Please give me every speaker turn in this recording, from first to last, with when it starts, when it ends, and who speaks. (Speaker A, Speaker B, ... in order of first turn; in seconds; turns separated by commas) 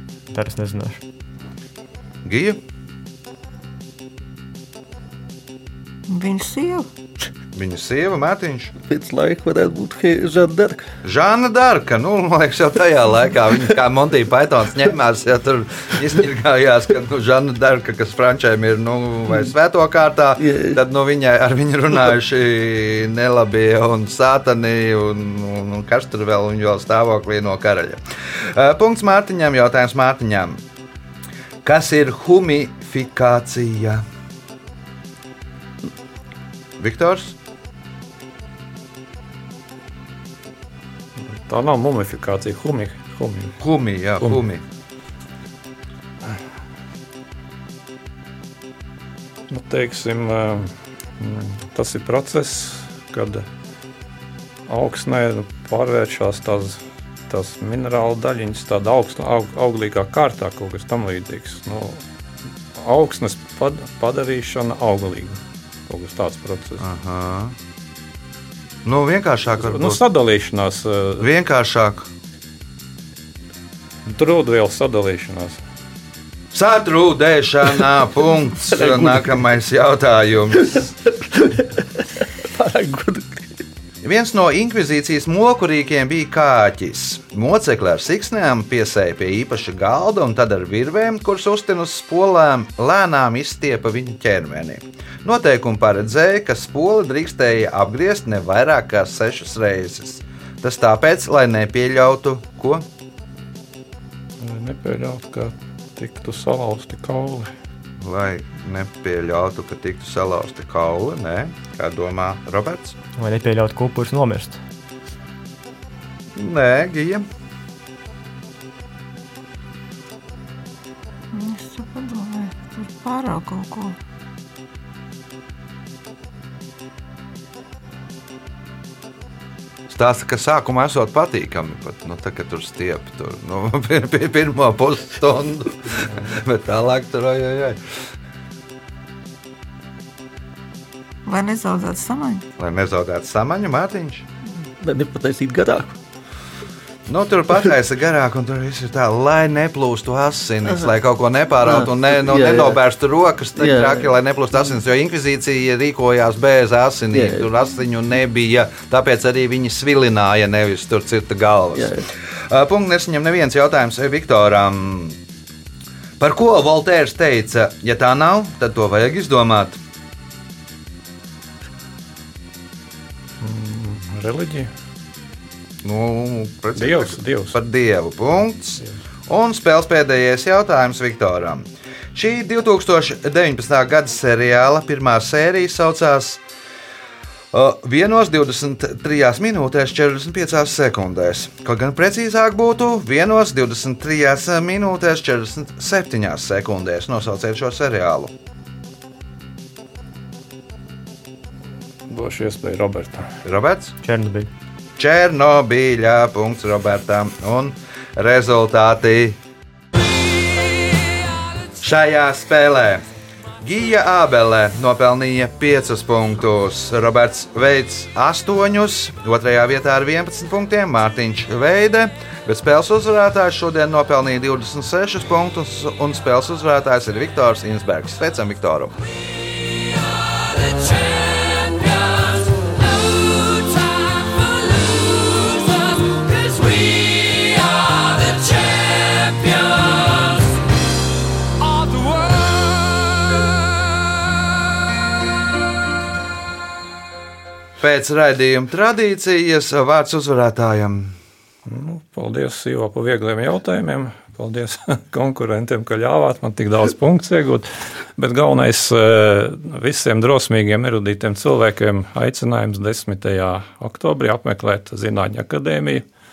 Speaker A: 0.3-1.0, Speaker B: 2.2-2.6, Speaker C: 6.1-6.9, Speaker B: 7.5-8.7, Speaker D: 8.8-10.9, Speaker B: 11.0-30.6, Speaker D: 20.4-20.8, Speaker B: 31.6-34.0, Speaker B: 36.8-37.4, Speaker E: 41.2-43.6, Speaker B: 43.6-44.6, Speaker E: 49.5-53.5, Speaker E: 54.7-62.0, Speaker E: 62.7-66.8, Speaker B: 66.8-67.5, Speaker B: 68.8-70.0, Speaker E: 69.6-71.3, Speaker B: 71.2-72.1, Speaker E: 74.0-75.6, Speaker B: 76.5-80.9, Speaker D: 78.7-79.4, Speaker D: 80.7-83.6, Speaker B: 84.0-102.8, Speaker E: 104.4-107.5, Speaker B: 108.0-113.0, Speaker A: 113.2-114.6, Speaker B: 116.3-117.2, Speaker C: 121.3-124.0, Speaker B: 129.9-137.9, Speaker C: 141.2-142.5, Speaker B: 142.6-144.2, Speaker D: 144.7-146.0, Speaker B: 147.1-165.2, Speaker D: 151.7-152.8, Speaker D: 153.6-154.0, Speaker D: 157.1-157.5, Speaker D: 161.8-162.0, Speaker B: 166.2-169.8, Speaker E: 173.4-174.7, Speaker B: 175.8-186.4, Speaker E: 176.8-177.6, Speaker B: 187.5-198.3, Speaker E: 202.1-203.3, Speaker B: 203.4-203.9, Speaker A: 204.0-204.5, Speaker B: 205.0-209.4, Speaker B: 211.8-213.0, Speaker B: 213.6-228.9, Speaker B: 247.8-251.2, Speaker E: 251.7-266.0